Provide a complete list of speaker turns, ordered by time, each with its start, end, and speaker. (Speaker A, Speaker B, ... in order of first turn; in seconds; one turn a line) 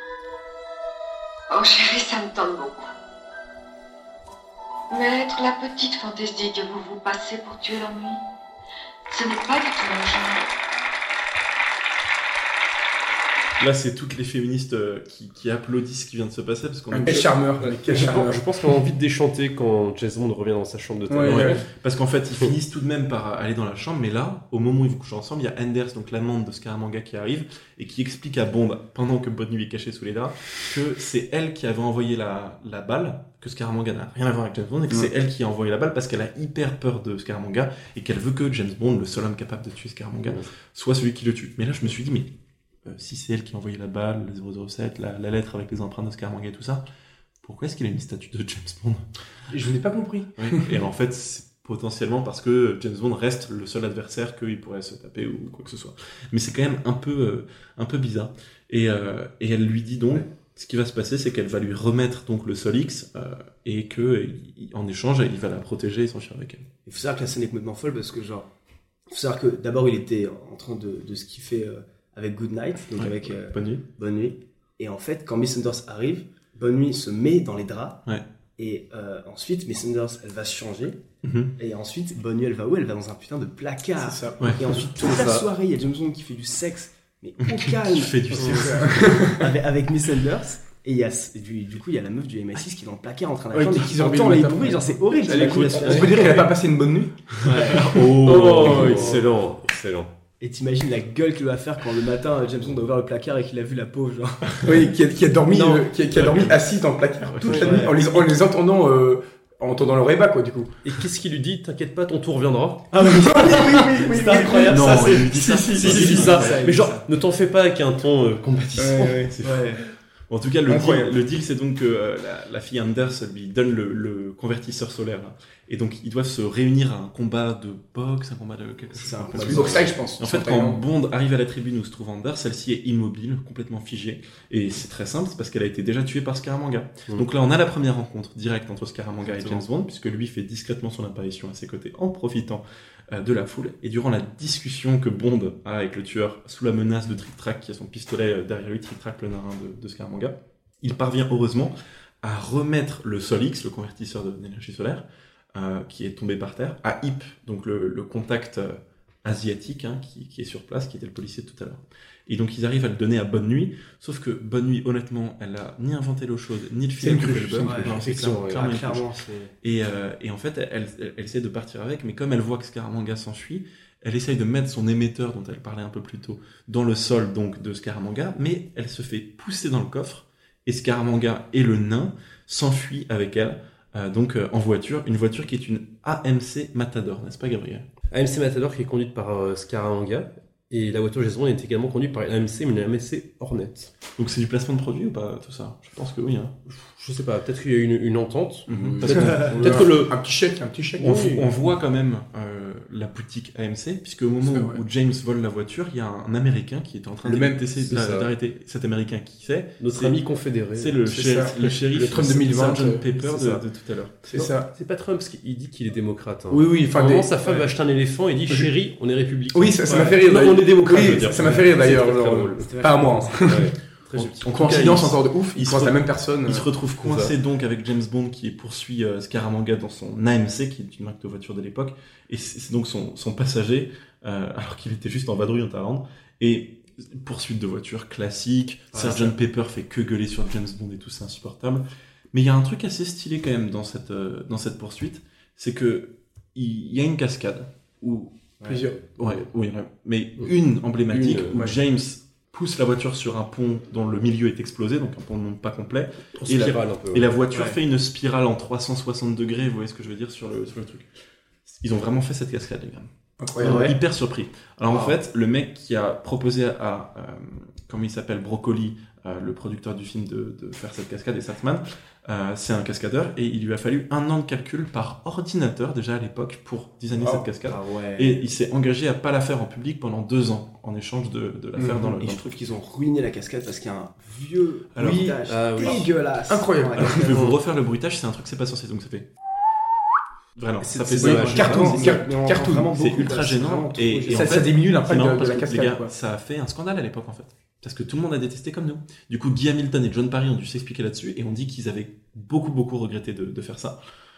Speaker A: 1.5-2.9
Speaker A: 4.9-8.2
Speaker A: 9.1-10.4
Speaker B: 13.6-17.3
Speaker C: 16.9-18.4
Speaker D: 17.1-21.6
Speaker C: 21.1-21.6
Speaker B: 21.2-42.3
Speaker B: 42.9-46.8
Speaker B: 47.4-49.0
Speaker C: 49.5-50.7
Speaker B: 50.4-66.6
Speaker E: 66.8-68.5
Speaker E: 69.1-78.0
Speaker B: 73.0-73.8
Speaker E: 78.6-81.0
Speaker B: 81.2-81.5
Speaker E: 81.6-96.5
Speaker C: 84.0-84.5
Speaker D: 85.0-85.4
Speaker B: 87.4-89.3
Speaker D: 88.3-88.6
Speaker C: 88.6-89.4
Speaker C: 93.5-97.4
Speaker D: 95.3-96.3
Speaker E: 97.4-98.0
Speaker B: 97.6-99.1
Speaker D: 98.2-100.1
Speaker E: 98.6-99.2
Speaker E: 100.4-104.7
Speaker C: 104.6-110.7
Speaker D: 105.5-105.8
Speaker B: 106.2-106.5
Speaker E: 107.4-108.2
Speaker B: 107.4-107.8
Speaker D: 107.5-107.8
Speaker D: 110.8-112.9
Speaker E: 112.9-117.0
Speaker C: 113.0-116.4
Speaker B: 114.7-116.9
Speaker D: 115.7-119.3
Speaker C: 118.8-119.3
Speaker B: 119.3-119.8
Speaker E: 119.4-119.8
Speaker B: 120.3-169.1
Speaker C: 120.7-121.1
Speaker E: 128.9-129.9
Speaker C: 129.4-130.8
Speaker D: 139.2-139.6
Speaker C: 167.0-167.9
Speaker E: 167.6-169.5
Speaker D: 168.0-168.6
Speaker B: 169.6-187.8
Speaker D: 188.1-193.9
Speaker B: 194.2-196.5
Speaker D: 196.7-200.1
Speaker B: 198.7-199.8
Speaker C: 198.7-201.3
Speaker B: 201.0-210.2
Speaker D: 201.0-201.4
Speaker C: 204.4-204.8
Speaker C: 207.2-207.6
Speaker D: 207.8-208.3
Speaker D: 209.8-210.9
Speaker B: 210.7-214.2
Speaker C: 211.1-213.1
Speaker D: 213.3-213.6
Speaker C: 214.3-214.7
Speaker D: 214.3-224.4
Speaker C: 216.5-217.7
Speaker C: 219.5-223.7
Speaker E: 222.6-223.6
Speaker B: 224.1-248.3
Speaker C: 224.4-226.7
Speaker D: 227.0-227.3
Speaker E: 248.6-248.8
Speaker C: 248.7-249.0
Speaker B: 249.2-261.1
Speaker D: 251.1-251.6
Speaker D: 256.4-257.3
Speaker E: 257.5-257.8
Speaker B: 261.6-263.1
Speaker C: 263.4-263.9
Speaker E: 263.6-263.9
Speaker B: 263.6-282.5
Speaker C: 277.1-277.4
Speaker E: 277.6-278.4
Speaker C: 281.8-282.1
Speaker E: 282.1-287.5
Speaker B: 284.9-286.0
Speaker D: 285.5-286.0
Speaker C: 286.5-287.2
Speaker B: 287.0-289.3
Speaker D: 287.2-287.6
Speaker B: 290.6-292.2
Speaker E: 290.9-294.7
Speaker C: 291.1-292.9
Speaker D: 291.2-291.7
Speaker B: 292.9-304.0
Speaker C: 294.3-296.1